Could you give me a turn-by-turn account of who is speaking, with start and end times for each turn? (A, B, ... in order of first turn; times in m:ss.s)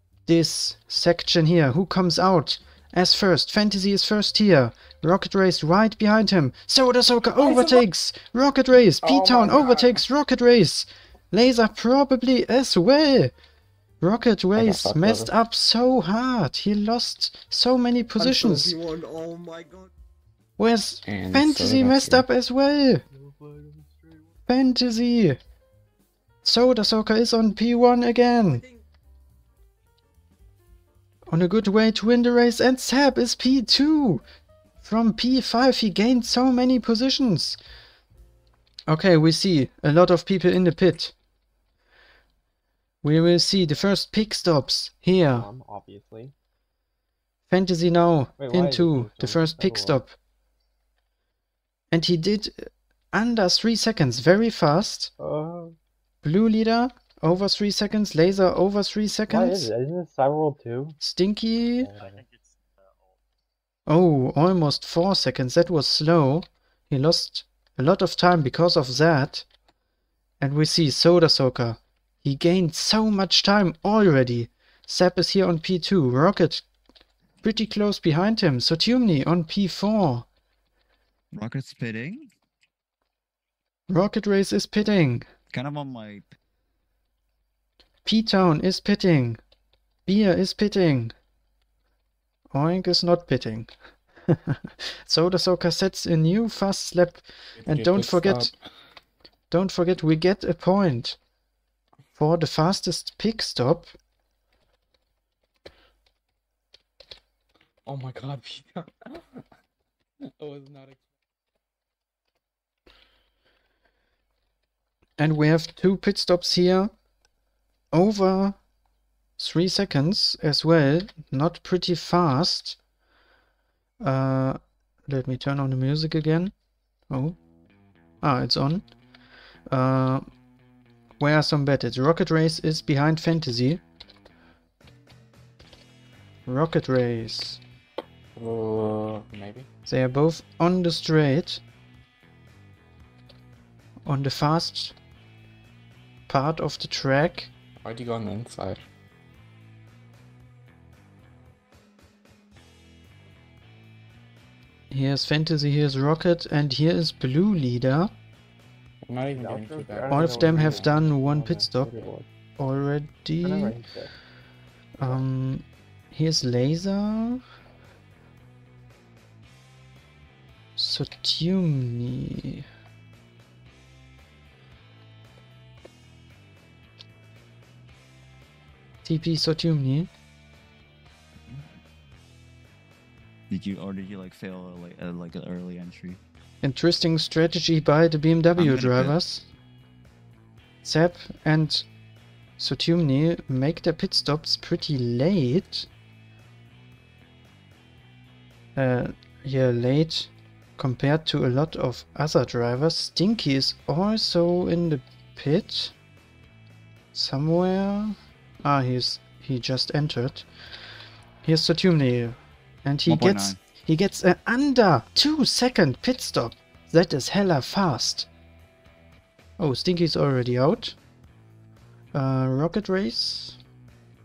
0:00.3-0:13.3 A
0:07.4-0:07.8 B
0:09.0-0:10.0 B
0:14.0-0:18.8 A
0:14.6-0:15.3 B
0:18.2-0:19.9 C
0:20.6-0:23.0 A
0:21.0-0:22.3 B
0:23.1-0:24.3 D
0:24.5-0:25.4 A
0:26.4-0:28.6 A
0:28.5-0:28.8 C
0:31.3-0:34.2 A
0:34.8-0:37.6 A
0:38.9-0:41.1 A
0:43.0-0:45.5 A
0:45.3-0:46.3 D
0:47.5-0:50.2 A
0:48.4-0:50.0 D
0:51.9-0:55.1 A
0:55.2-0:55.8 D
0:56.2-0:59.7 A
0:59.3-1:01.0 D
1:01.0-1:01.9 A
1:01.8-1:02.2 D
1:03.9-1:09.5 A
1:10.4-1:16.6 A
1:17.4-1:20.3 A
1:21.3-1:22.3 E
1:23.9-1:25.2 A
1:25.5-1:26.3 E
1:28.0-1:29.4 A
1:30.1-1:31.1 A
1:32.5-1:33.7 A
1:34.3-1:38.5 A
1:37.6-1:38.6 B
1:39.5-1:41.2 A
1:42.2-1:43.9 A
1:47.9-1:49.2 B
1:50.3-1:51.0 B
1:55.2-1:56.9 A
1:57.9-1:58.6 A
1:59.4-2:02.8 A
2:04.0-2:06.5 A
2:07.1-2:07.4 A
2:08.2-2:08.9 A
2:09.7-2:10.3 A
2:11.2-2:13.8 A
2:16.5-2:17.6 A
2:18.4-2:19.7 B
2:19.9-2:21.6 A
2:24.1-2:25.0 A
2:26.3-2:27.5 A
2:27.8-2:28.9 B
2:34.9-2:38.1 A
2:39.0-2:41.0 B
2:39.3-2:42.3 D
2:40.1-2:42.0 A
2:42.6-2:43.8 A
2:43.4-2:44.1 D
2:45.0-2:47.4 A
2:50.8-2:52.7 A
2:59.0-3:00.1 A
3:03.5-3:06.2 E
3:06.6-3:09.5 A
3:08.6-3:09.2 E
3:10.8-3:11.8 A
3:12.6-3:15.9 A
3:18.8-3:25.9 A
3:27.1-3:30.5 A
3:31.4-3:38.3 A
3:33.1-3:33.6 E
3:39.6-3:41.0 A
3:42.1-3:43.6 A